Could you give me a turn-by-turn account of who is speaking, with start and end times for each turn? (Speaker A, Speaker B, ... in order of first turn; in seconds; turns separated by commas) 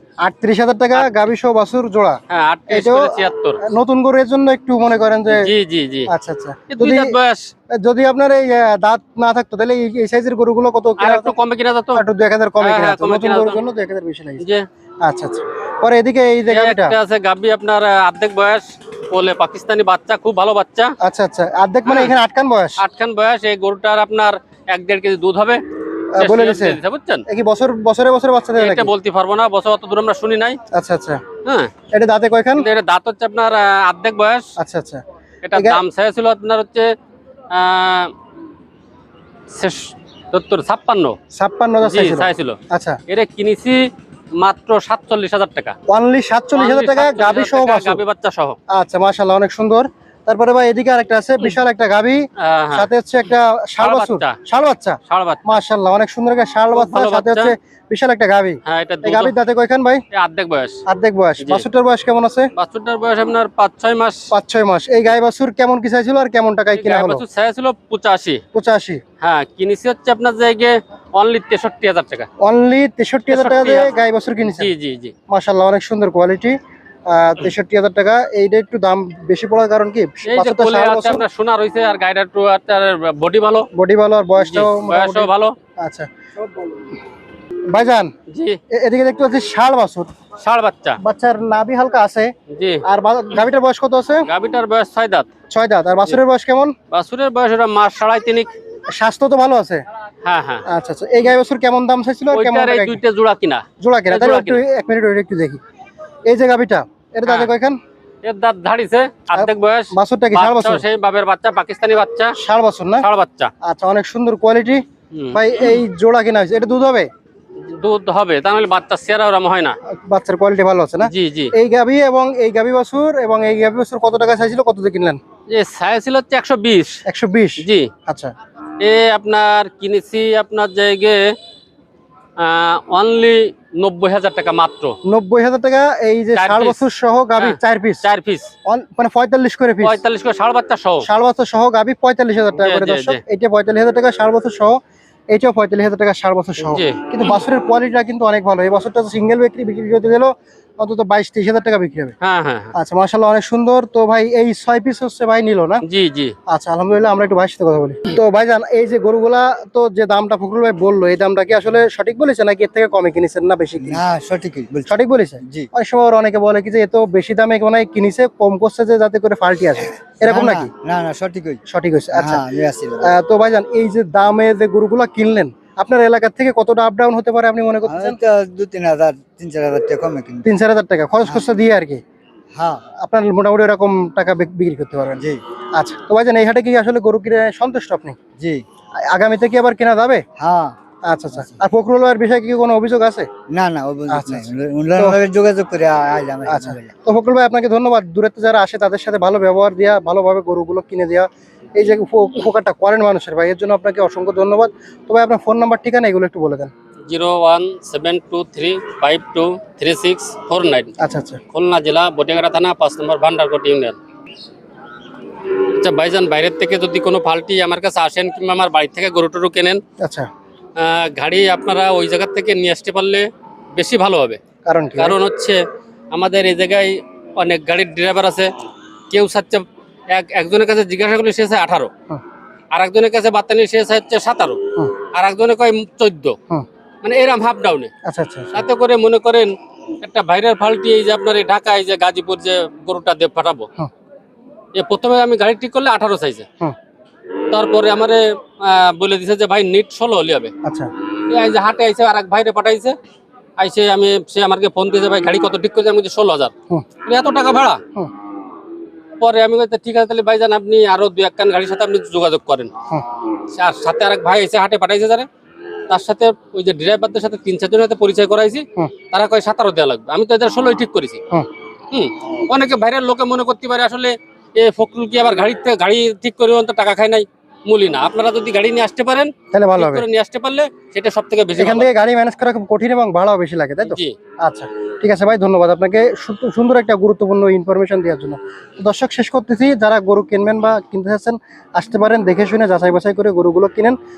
Speaker A: 0.2-5.5, Speaker B: 2.3-3.6, Speaker B: 5.3-6.1, Speaker A: 6.1-7.2, Speaker B: 6.7-7.5, Speaker A: 7.8-11.3, Speaker B: 11.0-12.0, Speaker A: 12.0-14.4, Speaker B: 12.6-13.6, Speaker B: 14.4-14.7, Speaker A: 15.0-16.9, Speaker B: 16.5-20.9, Speaker A: 21.0-22.8, Speaker B: 21.9-22.1, Speaker B: 22.8-25.6, Speaker A: 26.1-28.9, Speaker B: 26.2-27.2, Speaker B: 28.6-30.6, Speaker A: 30.7-31.2, Speaker B: 31.4-31.7, Speaker A: 31.9-32.7, Speaker B: 32.6-34.5, Speaker A: 34.6-35.0, Speaker B: 35.5-36.9, Speaker A: 35.5-35.8, Speaker B: 37.5-38.1, Speaker B: 39.5-41.2, Speaker A: 41.3-43.0, Speaker B: 41.8-42.6, Speaker B: 43.1-43.8, Speaker B: 44.4-45.7, Speaker A: 45.9-48.0, Speaker B: 46.5-48.6, Speaker A: 48.7-60.0, Speaker B: 52.4-52.9, Speaker B: 53.8-54.3, Speaker B: 55.1-55.6, Speaker B: 56.7-57.5, Speaker B: 58.7-59.3, Speaker B: 60.1-60.8, Speaker A: 60.9-62.5, Speaker B: 62.6-64.3, Speaker A: 64.3-67.2, Speaker B: 66.7-68.4, Speaker A: 68.5-69.0, Speaker B: 69.2-72.3, Speaker A: 72.4-74.7, Speaker B: 73.3-73.9, Speaker B: 74.6-75.1, Speaker A: 75.3-76.6, Speaker A: 77.1-81.2, Speaker B: 80.3-83.7, Speaker A: 83.7-86.8, Speaker B: 84.4-85.5, Speaker A: 87.7-88.1, Speaker B: 88.3-88.6, Speaker A: 88.7-90.1, Speaker B: 90.4-91.0, Speaker A: 91.0-92.3, Speaker B: 92.5-92.8, Speaker A: 92.9-94.3, Speaker B: 94.3-95.3, Speaker A: 95.5-96.7, Speaker B: 96.9-98.5, Speaker A: 99.0-99.8, Speaker B: 100.2-100.6, Speaker A: 100.7-103.0, Speaker B: 102.3-104.6, Speaker A: 103.8-105.6, Speaker A: 106.3-107.8, Speaker B: 108.2-112.3, Speaker A: 109.3-110.8, Speaker A: 112.4-113.1, Speaker B: 113.0-113.5, Speaker A: 113.6-117.1, Speaker B: 115.1-115.7, Speaker B: 117.6-119.8, Speaker A: 119.9-125.2, Speaker B: 121.0-121.5, Speaker B: 125.5-127.0, Speaker A: 127.1-128.3, Speaker B: 127.6-127.9, Speaker B: 128.8-131.3, Speaker B: 132.4-134.9, Speaker A: 135.1-138.1, Speaker B: 136.4-136.8, Speaker B: 137.4-138.5, Speaker A: 138.7-140.0, Speaker B: 139.8-141.1, Speaker A: 141.0-144.8, Speaker B: 142.6-143.2, Speaker A: 145.3-152.2, Speaker B: 146.6-147.0, Speaker B: 152.2-152.7, Speaker A: 152.8-155.8, Speaker B: 155.8-156.3, Speaker A: 156.5-164.0, Speaker C: 163.8-164.9, Speaker A: 164.9-170.7, Speaker C: 165.4-165.7, Speaker C: 170.0-171.6, Speaker A: 171.7-172.4, Speaker C: 172.1-173.1, Speaker A: 173.0-178.2, Speaker C: 177.8-180.5, Speaker A: 180.4-182.0, Speaker C: 182.5-182.8, Speaker A: 183.0-185.2, Speaker A: 185.8-188.2, Speaker C: 188.4-188.7, Speaker A: 189.0-190.2, Speaker C: 190.4-190.8, Speaker A: 191.1-193.3, Speaker C: 193.5-196.9, Speaker A: 194.1-195.2, Speaker A: 196.5-206.7, Speaker B: 207.1-210.9, Speaker A: 211.0-211.4, Speaker B: 211.5-214.0, Speaker B: 215.7-219.8, Speaker A: 220.0-220.3, Speaker B: 220.8-224.4, Speaker A: 224.7-225.2, Speaker B: 225.0-225.6, Speaker B: 226.1-228.5, Speaker B: 229.1-231.9, Speaker B: 232.7-234.6, Speaker B: 235.1-236.4, Speaker B: 237.0-237.9, Speaker A: 238.1-238.7, Speaker B: 238.5-239.5, Speaker B: 240.0-243.7, Speaker B: 244.8-246.5, Speaker B: 247.5-250.5, Speaker B: 251.3-252.9, Speaker B: 253.6-256.5, Speaker B: 257.1-257.8, Speaker B: 259.2-262.7, Speaker B: 263.5-265.3, Speaker B: 265.9-271.2, Speaker B: 271.9-281.9, Speaker A: 279.5-280.1, Speaker A: 281.6-294.0, Speaker B: 283.8-284.1